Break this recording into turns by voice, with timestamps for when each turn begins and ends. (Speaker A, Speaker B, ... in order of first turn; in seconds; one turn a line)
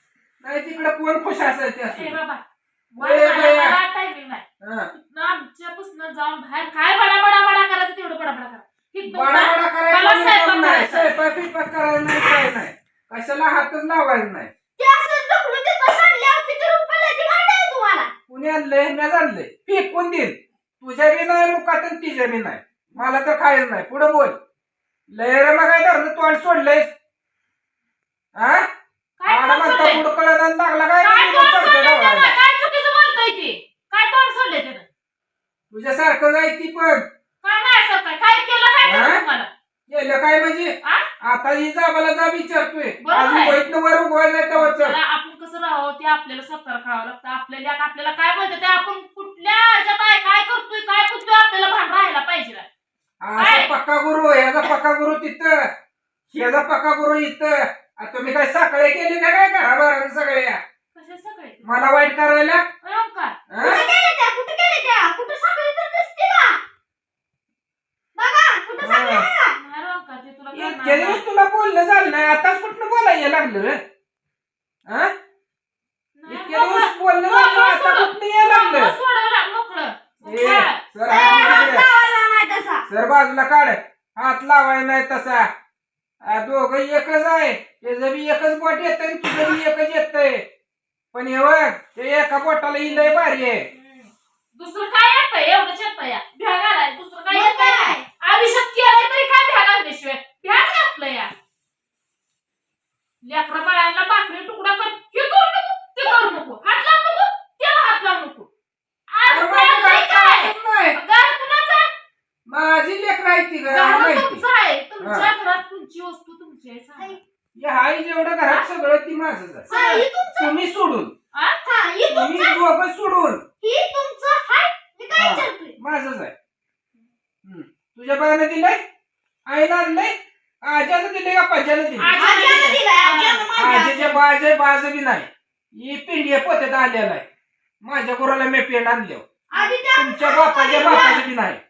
Speaker A: 0.4-2.2
Speaker B: 1.9-11.2
Speaker A: 3.0-3.8
Speaker A: 4.6-4.9
Speaker A: 9.1-14.5
Speaker C: 14.8-18.1
Speaker A: 18.3-24.4
Speaker A: 25.1-26.9
Speaker A: 28.4-28.7
Speaker B: 29.2-30.0
Speaker A: 29.3-32.4
Speaker B: 31.0-34.9
Speaker A: 35.7-37.1
Speaker B: 37.4-39.5
Speaker A: 38.8-39.2
Speaker A: 39.9-45.0
Speaker B: 43.0-43.6
Speaker B: 44.6-52.7
Speaker A: 53.2-55.7
Speaker B: 53.4-53.7
Speaker A: 56.3-60.6
Speaker B: 61.0-61.6
Speaker A: 61.6-62.6
Speaker B: 62.8-63.4
Speaker A: 63.5-63.8
Speaker C: 63.6-66.6
Speaker C: 68.2-69.6
Speaker A: 68.8-69.3
Speaker B: 69.5-71.2
Speaker A: 70.5-73.8
Speaker B: 76.2-81.7
Speaker A: 76.3-79.0
Speaker A: 80.2-81.9
Speaker C: 81.1-82.9
Speaker A: 82.9-85.5
Speaker A: 86.2-90.4
Speaker A: 91.1-93.7
Speaker B: 92.8-101.3
Speaker C: 97.3-98.0
Speaker B: 103.2-108.5
Speaker B: 109.1-111.9
Speaker A: 109.3-111.0
Speaker A: 112.5-114.4
Speaker B: 113.7-117.2
Speaker A: 115.0-115.3
Speaker A: 117.6-121.1
Speaker C: 119.7-120.5
Speaker B: 121.3-121.7
Speaker C: 121.7-122.6
Speaker A: 122.1-123.4
Speaker C: 123.6-125.8
Speaker A: 125.2-126.3
Speaker A: 127.4-128.8
Speaker A: 129.5-132.2
Speaker B: 132.0-133.5
Speaker C: 132.2-134.2
Speaker A: 133.6-137.2
Speaker A: 137.8-139.2
Speaker C: 139.5-141.3
Speaker A: 139.9-141.6